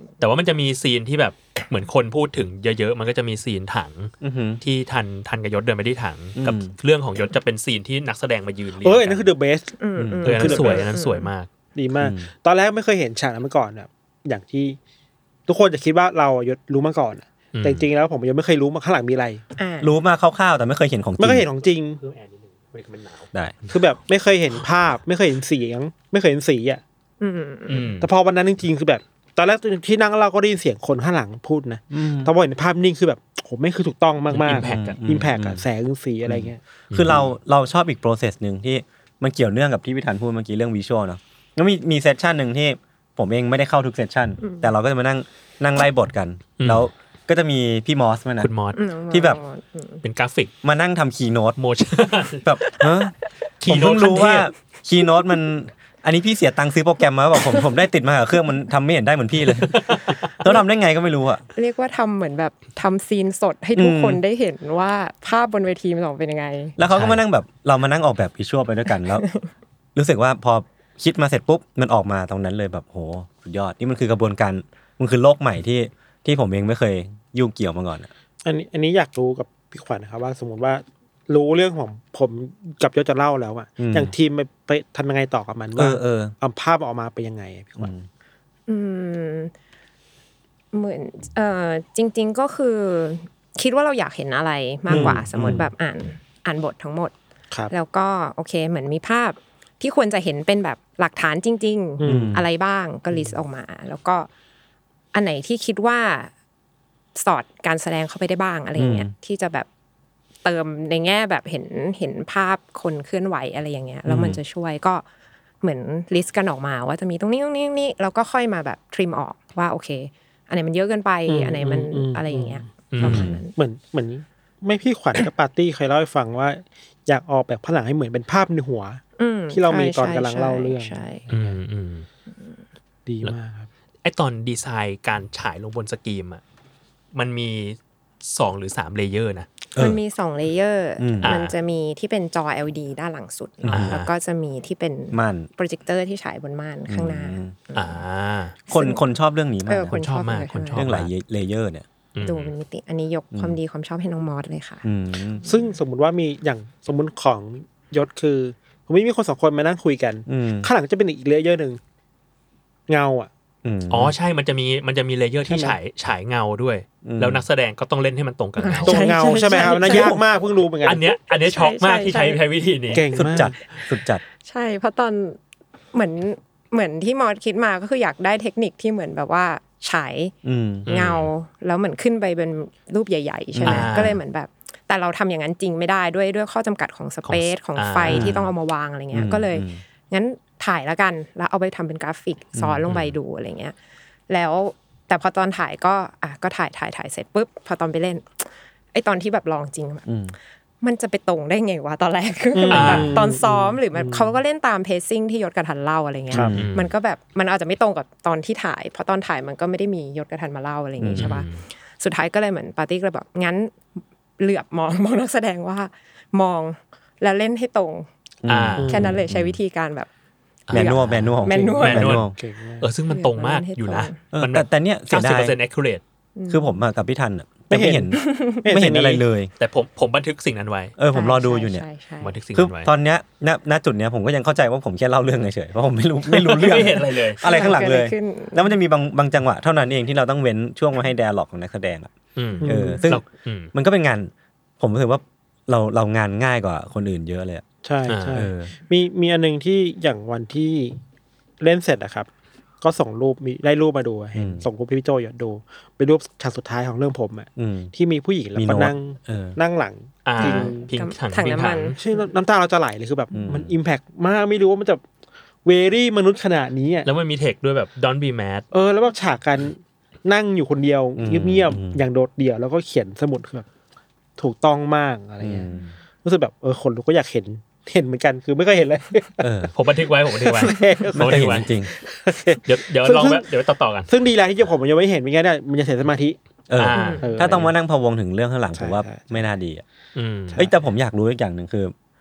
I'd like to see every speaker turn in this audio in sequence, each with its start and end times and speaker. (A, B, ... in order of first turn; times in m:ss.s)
0:00.2-0:09.3 A
0:04.2-0:04.6 B
0:06.4-0:06.7 B
0:08.8-0:09.8 C
0:09.8-0:11.3 D
0:10.0-0:10.6 B
0:10.2-0:11.5 A
0:10.3-0:10.8 C
0:11.7-0:14.8 C
0:12.0-0:12.3 B
0:15.5-0:19.4 C
0:17.5-0:17.8 A
0:19.6-0:19.9 D
0:19.8-0:21.5 B
0:21.2-0:22.0 C
0:21.9-0:23.3 A
0:23.7-0:26.8 C
0:27.2-0:28.0 D
0:27.7-0:28.1 A
0:28.0-0:36.6 C
0:31.9-0:32.3 B
0:34.3-0:35.0 A
0:34.5-0:35.6 B
0:36.2-0:48.5 B
0:36.9-0:37.3 A
0:44.4-0:44.7 D
0:46.6-0:46.9 A
0:48.4-0:48.8 A
0:48.7-0:50.0 D
0:49.1-0:49.4 B
0:50.0-0:50.5 A
0:50.6-0:51.6 B
0:51.6-0:52.4 A
0:52.4-0:53.1 B
0:53.6-0:54.5 A
0:53.6-1:01.4 B
1:01.5-1:06.8 D
1:03.8-1:04.2 B
1:06.8-1:09.2 B
1:06.9-1:07.2 A
1:09.1-1:09.5 D
1:09.9-1:18.1 B
1:18.4-1:27.9 C
1:23.8-1:24.1 B
1:25.8-1:26.3 B
1:27.8-1:28.0 B
1:28.7-1:29.5 D
1:30.7-1:37.1 D
1:34.9-1:35.2 C
1:34.9-1:35.7 B
1:37.7-1:44.3 D
1:42.0-1:42.4 C
1:42.0-1:42.4 B
1:45.1-1:46.3 D
1:47.2-1:49.7 D
1:48.8-1:49.1 B
1:50.4-1:55.0 D
1:54.0-1:54.4 B
1:55.6-2:03.5 D
2:01.3-2:02.6 C
2:02.9-2:03.3 A
2:03.0-2:03.4 B
2:03.2-2:09.0 C
2:09.2-2:11.2 D
2:09.5-2:11.6 C
2:11.3-2:12.0 A
2:13.0-2:13.7 C
2:14.0-2:16.4 A
2:17.1-2:19.5 A
2:19.8-2:28.0 D
2:21.0-2:21.4 B
2:21.2-2:21.5 A
2:23.6-2:24.1 A
2:23.7-2:24.0 B
2:25.1-2:25.5 B
2:26.9-2:27.5 B
2:27.7-2:28.6 A
2:28.7-2:29.0 D
2:28.7-2:30.0 B
2:29.6-2:30.9 D
2:29.8-2:31.1 A
2:30.7-2:31.8 B
2:32.1-2:32.5 A
2:32.2-2:34.8 D
2:34.8-2:35.4 B
2:35.4-2:41.8 C
2:40.2-2:40.7 B
2:42.9-2:43.3 C
2:43.6-2:44.1 B
2:43.9-2:50.2 A
2:45.5-2:45.8 C
2:47.0-2:47.4 B
2:48.6-2:50.2 D
2:48.8-2:51.0 C
2:50.8-2:53.1 A
2:51.4-2:52.4 D
2:52.9-2:53.5 C
2:53.1-2:54.2 B
2:54.4-2:55.4 D
2:55.9-3:00.3 D
3:00.4-3:00.9 B
3:00.8-3:01.3 A
3:00.8-3:13.7 D
3:03.5-3:03.9 B
3:03.6-3:04.2 A
3:07.2-3:08.5 A
3:08.1-3:08.5 B
3:09.1-3:09.8 B
3:12.6-3:12.9 B
3:12.9-3:13.1 A
3:14.3-3:20.0 D
3:20.0-3:20.3 B
3:20.8-3:31.5 D
3:22.5-3:24.3 C
3:22.7-3:23.2 A
3:26.3-3:26.7 B
3:26.6-3:26.9 A
3:31.0-3:31.3 B
3:31.2-3:31.6 A
3:32.0-3:33.7 D
3:34.4-3:38.1 D
3:38.4-3:39.6 B
3:38.4-3:39.1 A
3:38.8-3:39.1 C
3:38.9-3:40.1 D
3:40.7-3:42.3 A
3:40.7-3:42.2 D
3:40.7-3:42.3 B
3:41.4-3:42.8 C
3:42.8-3:46.0 A
3:43.1-3:44.2 D
3:44.3-3:45.6 B
3:46.4-3:46.8 D
3:46.5-3:49.5 B
3:47.7-3:49.2 C
3:48.1-3:48.6 D
3:49.6-3:50.9 A
3:51.0-3:51.8 B
3:51.1-3:52.3 D
3:52.2-3:52.9 A
3:52.5-4:02.1 B
3:56.2-3:57.4 A
3:57.4-3:58.7 D
4:02.4-4:03.7 A
4:02.6-4:03.0 C
4:02.6-4:07.6 B
4:07.8-4:11.0 C
4:08.1-4:08.5 A
4:08.3-4:08.7 B
4:11.6-4:12.3 C
4:12.8-4:20.9 C
4:14.4-4:14.6 B
4:17.6-4:17.9 B
4:18.6-4:19.6 B
4:20.2-4:22.0 A
4:20.4-4:22.0 D
4:22.0-4:25.0 C
4:23.3-4:23.7 B
4:25.6-4:27.1 C
4:27.0-4:28.7 A
4:28.7-4:33.7 C
4:31.2-4:32.0 B
4:34.4-4:35.7 C
4:35.4-4:35.9 B
4:36.2-4:39.5 C
4:39.4-4:39.7 B
4:39.7-4:41.7 A
4:40.3-4:43.5 C
4:41.1-4:41.9 B
4:42.6-4:44.1 A
4:44.1-4:46.4 C
4:46.7-4:49.8 B
4:46.8-4:47.7 A
4:46.8-4:47.2 D
4:47.2-4:47.7 C
4:48.8-4:49.4 C
4:50.1-4:50.6 A
4:50.5-4:51.9 B